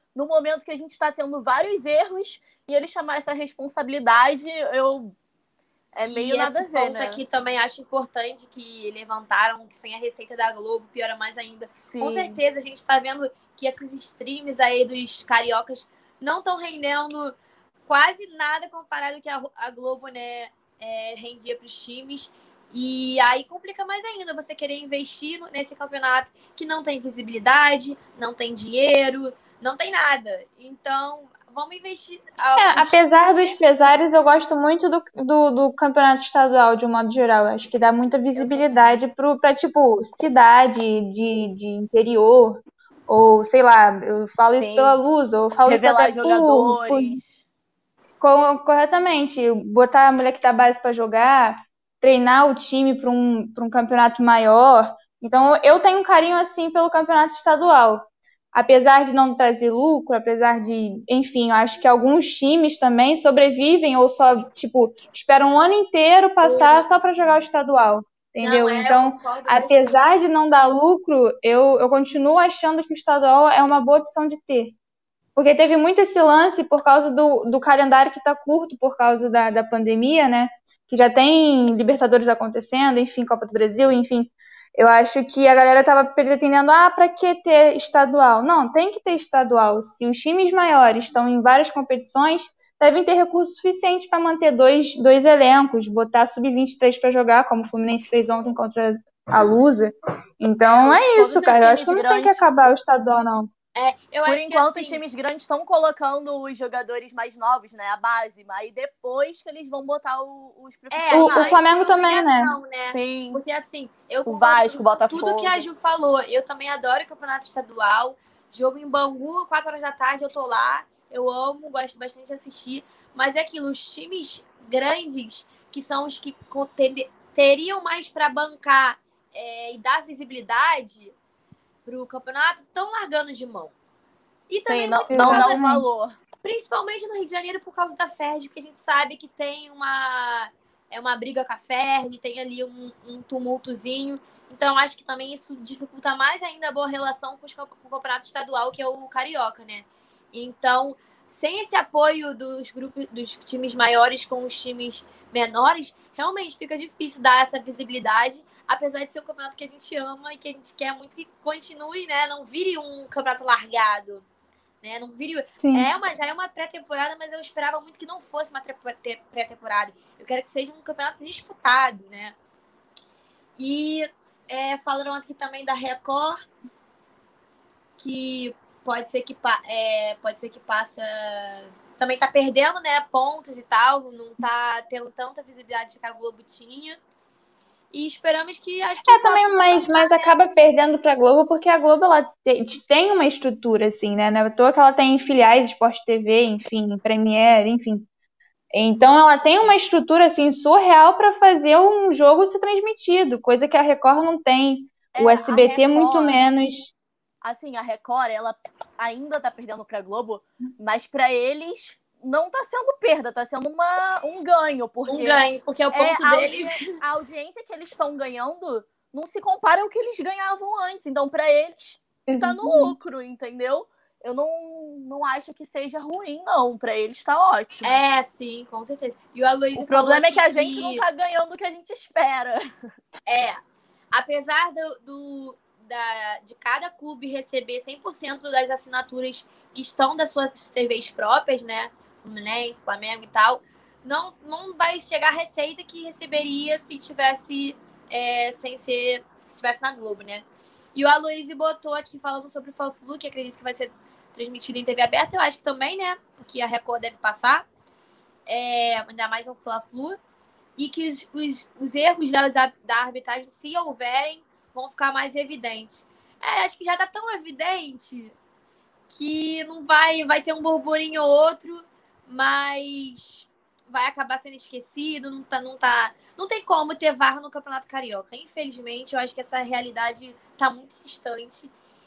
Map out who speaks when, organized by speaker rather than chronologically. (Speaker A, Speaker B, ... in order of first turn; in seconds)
Speaker A: 0.1-5.1, 5.9-7.2, 11.8-12.4, 44.6-45.0, 45.6-47.4, 100.8-102.4, 104.2-111.6, 112.9-113.4, 114.2-115.6, 134.7-136.1, 205.1-206.4, 207.4-228.0, 229.8-232.7
Speaker B: 6.1-17.3, 17.9-33.6, 38.4-38.6, 66.4-67.2, 68.4-70.3, 103.7-105.0, 110.9-131.1, 131.8-133.7, 134.5-135.6, 136.4-164.2, 164.8-172.3, 173.6-176.4, 178.0-187.0, 187.9-190.4, 215.1-216.8, 227.8-231.0, 233.2-233.6, 234.1-250.4, 250.9-257.6, 258.5-260.2, 260.8-268.3, 269.1-281.7
Speaker C: 32.6-47.2, 48.2-74.7, 75.3-103.5, 111.1-112.5, 135.1-135.9, 165.6-165.9, 189.1-198.1, 198.7-206.9, 222.3-222.9